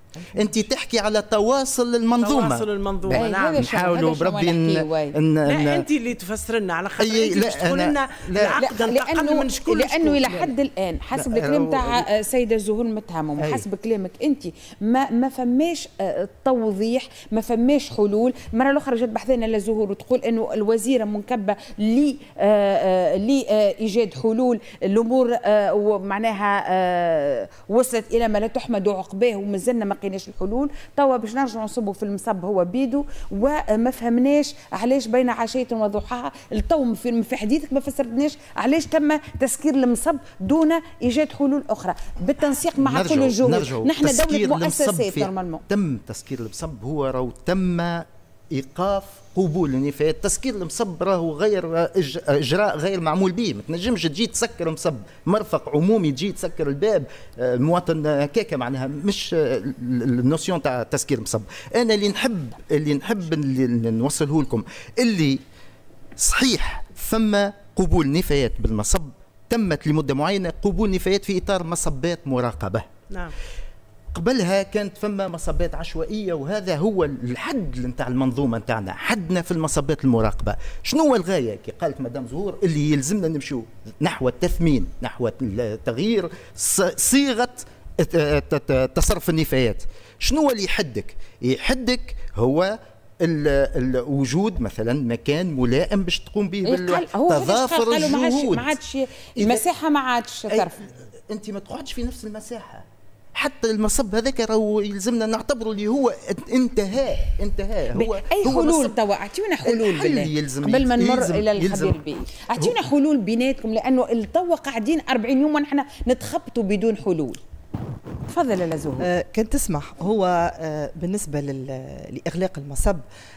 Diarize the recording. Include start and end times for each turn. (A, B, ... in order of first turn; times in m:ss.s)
0:00.4-0:05.8 A
0:02.2-0:03.6 B
0:03.1-0:05.1 C
0:05.5-0:10.0 B
0:07.0-0:08.6 A
0:08.6-0:45.6 C
0:11.2-0:12.1 A
0:42.8-1:05.4 A
1:06.2-1:12.9 A
1:14.1-1:38.7 A
1:36.6-1:40.8 C
1:40.5-1:49.0 A
1:47.9-1:57.4 C
1:49.6-1:52.0 A
1:58.3-1:59.1 C
1:59.0-2:03.0 D